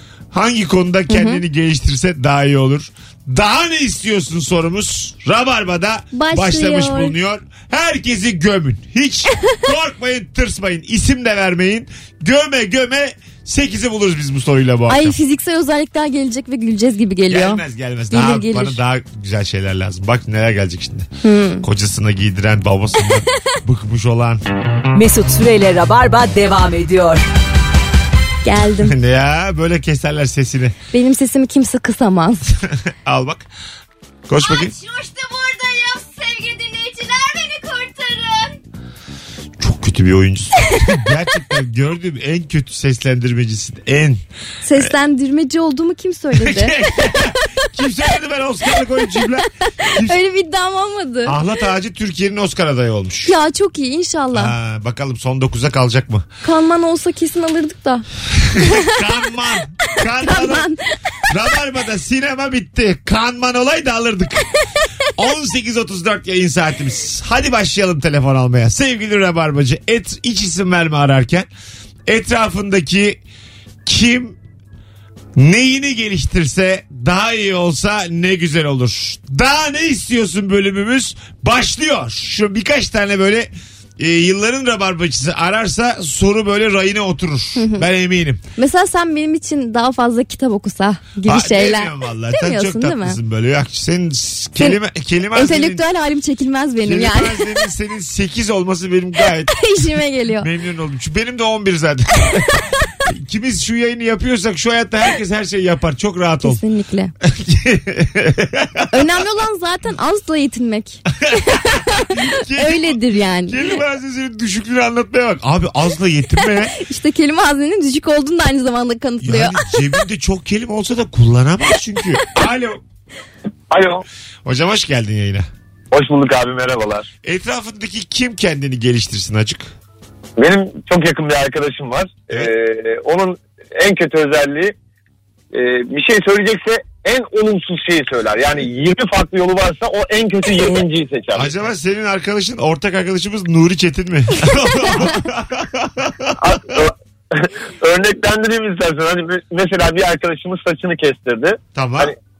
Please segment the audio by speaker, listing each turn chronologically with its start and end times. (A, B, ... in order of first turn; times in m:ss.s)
0:00.3-0:15.2 A
0:01.1-0:01.4 B
0:06.1-0:07.1 B
0:14.9-0:18.8 B
0:17.3-0:21.1 A
0:21.2-0:21.6 B
0:21.6-0:24.4 A
0:24.9-0:27.2 C
0:28.4-0:29.0 B
0:28.8-0:30.7 A
0:30.9-0:32.5 B
0:32.9-0:33.4 A
0:34.3-0:34.7 A
0:34.4-0:38.6 D
0:39.6-0:44.2 A
0:44.6-0:46.8 B
0:46.3-0:50.2 A
0:49.6-0:51.4 B
0:51.2-0:53.3 A
0:53.3-0:54.5 B
0:54.3-0:56.2 A
0:56.4-0:58.0 B
0:58.3-1:00.7 A
0:58.6-0:59.0 B
1:00.1-1:00.8 B
1:01.3-1:04.5 A
1:05.2-1:11.5 A
1:12.1-1:13.2 A
1:13.8-1:14.4 A
1:15.4-1:28.4 A
1:27.6-1:27.8 B
1:28.6-1:33.2 B
1:31.2-1:35.8 A
1:35.3-1:37.5 B
1:36.8-1:39.6 A
1:39.5-1:40.5 B
1:40.4-1:42.5 A
1:43.0-1:46.6 A
1:46.4-1:47.1 B
1:47.2-1:49.1 A
1:48.9-1:51.0 B
1:51.2-1:56.7 A
1:52.5-1:53.8 B
1:56.4-1:59.8 B
1:59.2-2:02.8 A
2:03.7-2:04.0 E
2:04.4-2:05.5 A
2:05.9-2:07.1 E
2:07.2-2:09.7 A
2:10.4-2:14.7 E
2:15.5-2:21.5 E
2:21.3-2:26.8 A
2:26.4-2:32.1 E
2:31.7-2:32.1 A